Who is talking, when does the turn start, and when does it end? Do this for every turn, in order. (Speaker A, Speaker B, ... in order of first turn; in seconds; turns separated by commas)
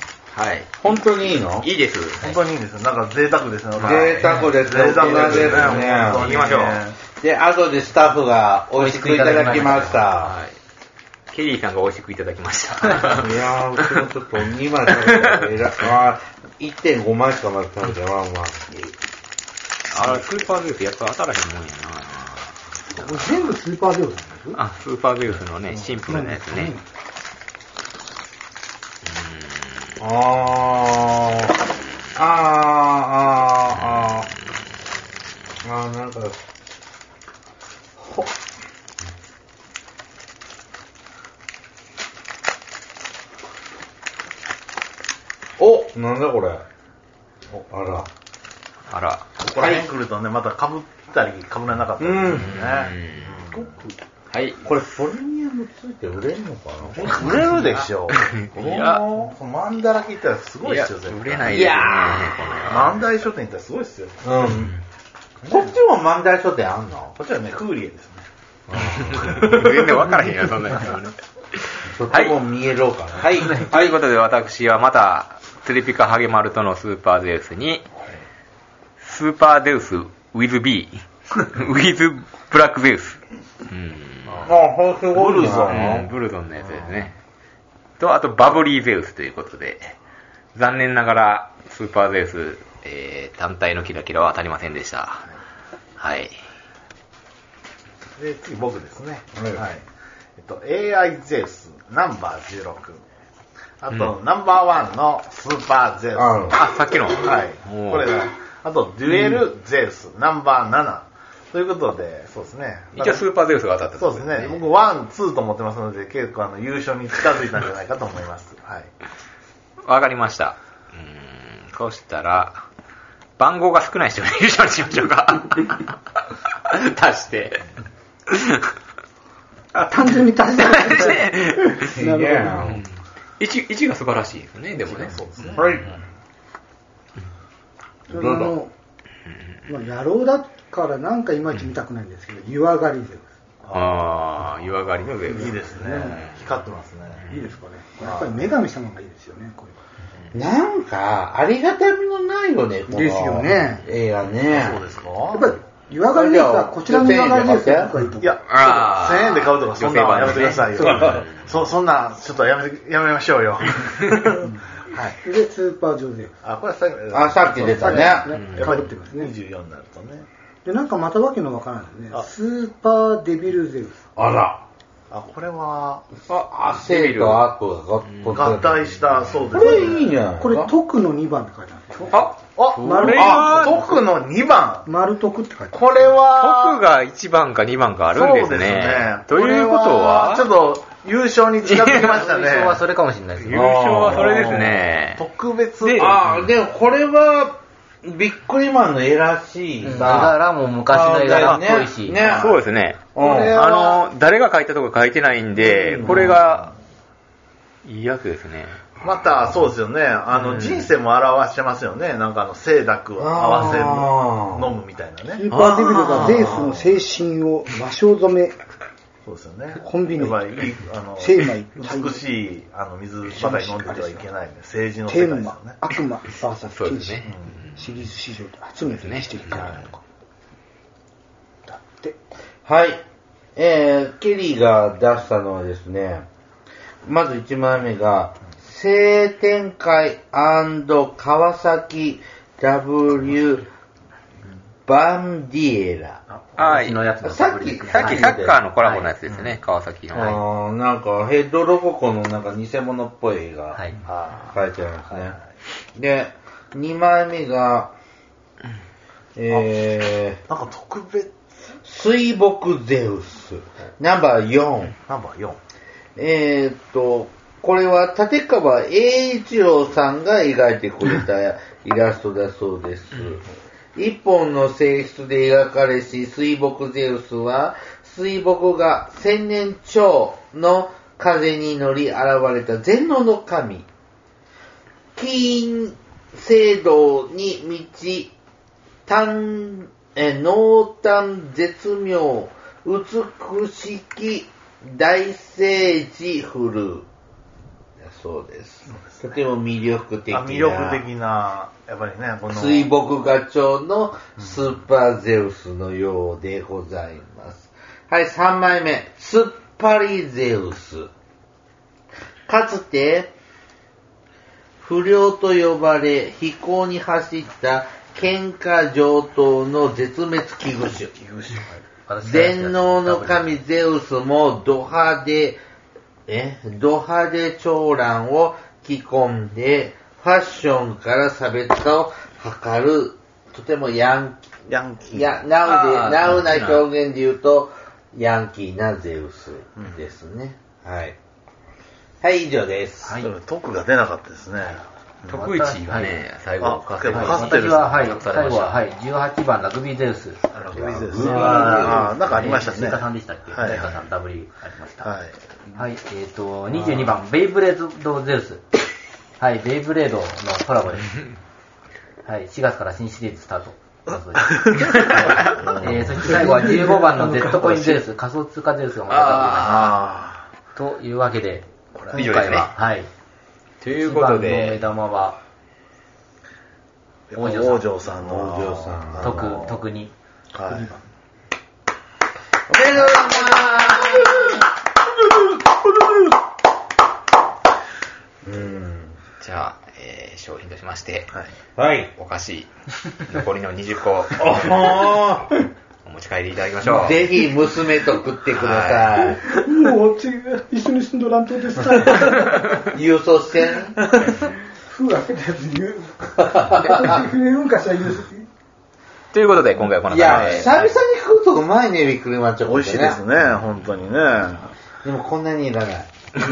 Speaker A: 0.3-0.8, Speaker B: 0.8-1.7, Speaker A: 1.5-2.3, Speaker C: 2.2-7.0, Speaker A: 3.8-6.8, Speaker B: 3.8-6.3, Speaker B: 7.2-10.3, Speaker D: 8.8-10.1, Speaker A: 10.2-10.6, Speaker A: 11.3-14.1, Speaker B: 13.0-18.7, Speaker A: 14.9-15.5, Speaker A: 19.9-23.4, Speaker E: 22.9-24.6, Speaker A: 24.5-26.8, Speaker E: 25.9-26.8, Speaker A: 29.1-29.9, Speaker B: 30.0-31.6, Speaker B: 32.1-34.3, Speaker A: 33.7-34.3, Speaker B: 35.6-36.4, Speaker B: 38.0-38.3, Speaker B: 45.6-46.6, Speaker B: 47.7-48.1, Speaker A: 48.9-49.4, Speaker C: 49.4-53.9, Speaker B: 49.6-49.9, Speaker B: 52.0-52.5, Speaker A: 52.3-53.7, Speaker A: 54.3-54.9, Speaker B: 54.6-57.3, Speaker C: 57.0-61.8, Speaker A: 57.0-59.1, Speaker A: 60.6-63.0, Speaker B: 61.5-62.5, Speaker C: 62.6-64.4, Speaker B: 64.2-64.7, Speaker B: 65.5-67.1, Speaker C: 67.2-68.3, Speaker B: 68.7-69.5, Speaker A: 68.7-72.4, Speaker C: 69.2-69.8, Speaker B: 71.9-73.9, Speaker A: 73.2-77.9, Speaker A: 79.0-84.5, Speaker C: 84.3-84.5, Speaker B: 84.5-86.1, Speaker C: 85.1-86.0, Speaker A: 85.4-87.2, Speaker C: 86.6-87.1, Speaker A: 88.0-90.0, Speaker A: 90.5-95.3, Speaker A: 96.0-96.4, Speaker C: 98.2-99.8, Speaker B: 99.4-99.6, Speaker C: 100.4-103.0, Speaker C: 103.8-113.3, Speaker B: 106.2-106.6, Speaker A: 106.5-108.2, Speaker B: 109.1-109.4, Speaker A: 113.0-114.6, Speaker C: 114.0-118.9, Speaker A: 119.8-122.6, Speaker A: 123.4-126.0, Speaker A: 126.7-127.7, Speaker A: 128.3-128.7, Speaker E: 129.7-132.7, Speaker A: 130.6-131.9, Speaker B: 131.9-132.8, Speaker A: 132.6-132.9, Speaker A: 133.4-135.9, Speaker C: 134.9-136.0, Speaker B: 135.6-135.9, Speaker B: 138.1-138.6, Speaker E: 138.1-138.7, Speaker E: 139.7-143.3, Speaker C: 143.6-144.0, Speaker A: 143.7-146.4, Speaker C: 145.3-147.2, Speaker E: 145.3-146.3, Speaker E: 147.3-149.8, Speaker C: 148.0-148.5, Speaker B: 150.3-154.8, Speaker E: 152.9-153.8, Speaker C: 154.5-155.6, Speaker E: 155.3-158.4, Speaker B: 156.1-157.9, Speaker C: 158.2-165.2, Speaker A: 158.5-161.4, Speaker B: 160.8-161.2, Speaker E: 165.2-166.4, Speaker C: 166.4-170.3, Speaker B: 167.1-168.4, Speaker E: 167.6-169.3, Speaker A: 168.3-168.8, Speaker E: 170.7-174.0, Speaker B: 174.2-174.6, Speaker C: 175.1-176.1, Speaker A: 176.3-177.5, Speaker B: 176.3-178.9, Speaker A: 178.0-179.7, Speaker C: 178.3-180.2, Speaker B: 179.5-180.7, Speaker E: 180.4-184.0, Speaker A: 182.1-183.8, Speaker C: 182.6-184.9, Speaker B: 183.1-183.6, Speaker E: 184.8-185.9, Speaker C: 185.7-186.8, Speaker A: 186.3-190.5, Speaker C: 188.1-192.8, Speaker A: 191.7-192.0, Speaker D: 191.8-193.7, Speaker A: 193.4-195.2, Speaker B: 193.5-194.3, Speaker C: 194.0-196.2, Speaker A: 195.8-196.4, Speaker B: 196.0-200.3, Speaker D: 199.8-202.2, Speaker B: 200.9-202.6, Speaker A: 201.3-201.6, Speaker C: 202.1-202.6, Speaker A: 202.2-206.7, Speaker B: 203.2-203.7, Speaker C: 203.2-204.1, Speaker B: 205.6-206.4, Speaker C: 206.0-206.6, Speaker A: 207.8-208.9, Speaker C: 209.0-217.0, Speaker A: 210.5-210.8, Speaker B: 213.2-214.7, Speaker E: 215.4-218.6, Speaker B: 215.5-216.7, Speaker C: 219.2-225.8, Speaker E: 219.8-220.4, Speaker E: 221.2-222.2, Speaker E: 223.3-224.2, Speaker E: 225.1-230.0, Speaker A: 226.8-227.7, Speaker A: 228.9-229.8, Speaker C: 229.5-229.9, Speaker E: 231.7-232.2, Speaker B: 232.7-233.0, Speaker B: 233.6-236.3, Speaker B: 237.1-243.7, Speaker B: 244.9-246.2, Speaker A: 246.6-247.1, Speaker D: 246.6-249.1, Speaker B: 247.2-248.6, Speaker A: 247.9-250.4, Speaker B: 250.1-253.8, Speaker C: 254.1-255.4, Speaker B: 254.5-255.4, Speaker B: 255.9-257.9, Speaker B: 259.4-260.4, Speaker C: 260.5-261.3, Speaker B: 261.9-264.9, Speaker C: 265.0-265.6, Speaker B: 266.2-273.4, Speaker B: 273.9-283.9, Speaker B: 285.2-288.3, Speaker B: 289.1-297.1, Speaker B: 298.0-301.0, Speaker C: 298.9-299.4, Speaker C: 300.3-302.9, Speaker B: 302.5-311.1, Speaker B: 312.5-313.3, Speaker B: 314.8-321.1, Speaker C: 321.1-321.8, Speaker D: 322.1-323.6, Speaker B: 322.2-325.6, Speaker B: 326.3-334.5, Speaker C: 334.7-335.4, Speaker B: 335.1-341.2, Speaker A: 335.6-336.9, Speaker B: 342.2-343.2, Speaker D: 343.1-343.3, Speaker C: 343.2-345.4, Speaker D: 345.3-346.2, Speaker A: 345.3-348.8, Speaker C: 346.6-348.0, Speaker D: 347.1-355.1, Speaker C: 350.6-354.0, Speaker B: 350.8-352.1, Speaker C: 355.0-355.4, Speaker D: 355.8-358.6, Speaker D: 359.4-361.1, Speaker D: 362.2-370.0, Speaker C: 364.4-366.3, Speaker A: 365.0-365.6, Speaker E: 366.2-368.0, Speaker A: 369.1-370.0, Speaker C: 369.6-370.5, Speaker D: 370.8-373.1, Speaker C: 371.9-372.4, Speaker A: 372.1-372.7, Speaker A: 373.8-374.8, Speaker D: 373.9-375.4, Speaker C: 377.3-379.9, Speaker D: 377.3-377.9, Speaker B: 378.2-379.6, Speaker D: 379.2-380.1, Speaker C: 380.5-380.9, Speaker E: 380.7-381.0, Speaker B: 382.7-384.6, Speaker B: 388.4-389.2, Speaker A: 389.4-391.3, Speaker B: 391.8-392.1, Speaker A: 392.1-395.3, Speaker B: 394.4-395.6, Speaker A: 396.0-397.5, Speaker B: 396.8-399.4, Speaker A: 398.5-399.4, Speaker E: 399.5-402.8, Speaker B: 402.9-404.1, Speaker E: 404.3-408.5, Speaker B: 406.6-407.1, Speaker A: 409.3-410.9, Speaker B: 410.1-413.2, Speaker C: 410.2-410.8, Speaker C: 412.6-414.7, Speaker B: 415.0-416.1